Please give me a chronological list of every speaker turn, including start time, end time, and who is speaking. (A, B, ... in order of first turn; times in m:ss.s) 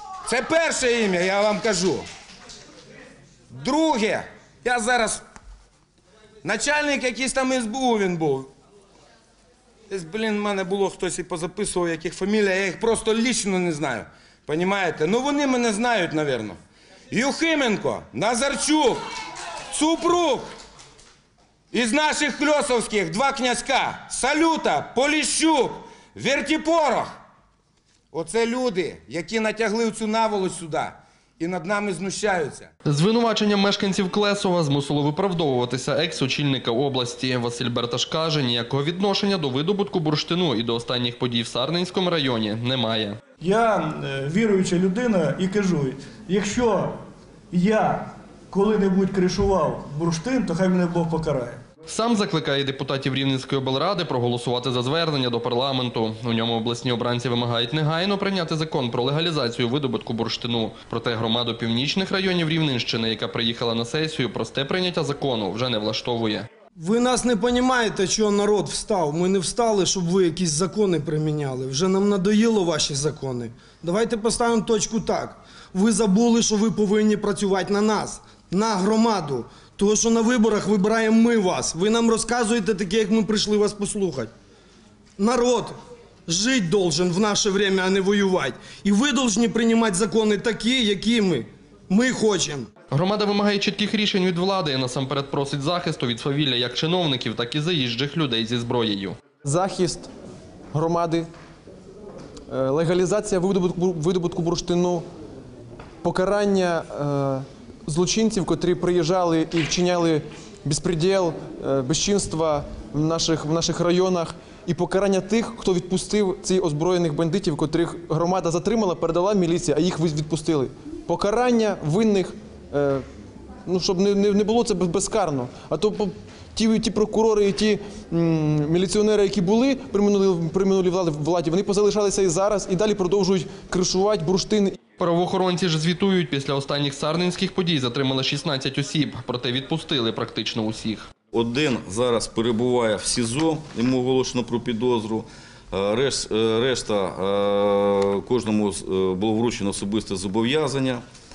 0:00.3-0:02.0 A
0:03.5-0:05.2 A
0:06.4-0:08.5 A
0:09.9-0:16.6 A
0:17.1-0:19.0 A
0:19.7-0:20.5 A
0:21.7-0:27.2 A
0:28.1-0:32.7 A
0:32.9-0:43.2 B
0:43.4-0:47.0 C
0:47.5-0:51.6 C
0:51.9-1:06.5 B
1:06.8-1:24.3 D
1:25.2-1:32.7 D
1:32.9-1:39.2 B
1:39.4-1:40.1 E
1:40.7-1:41.3 E
1:42.5-1:45.1 E
1:46.0-2:03.1 E
2:03.6-2:14.8 E
2:15.0-2:21.1 B
2:21.3-2:31.0 F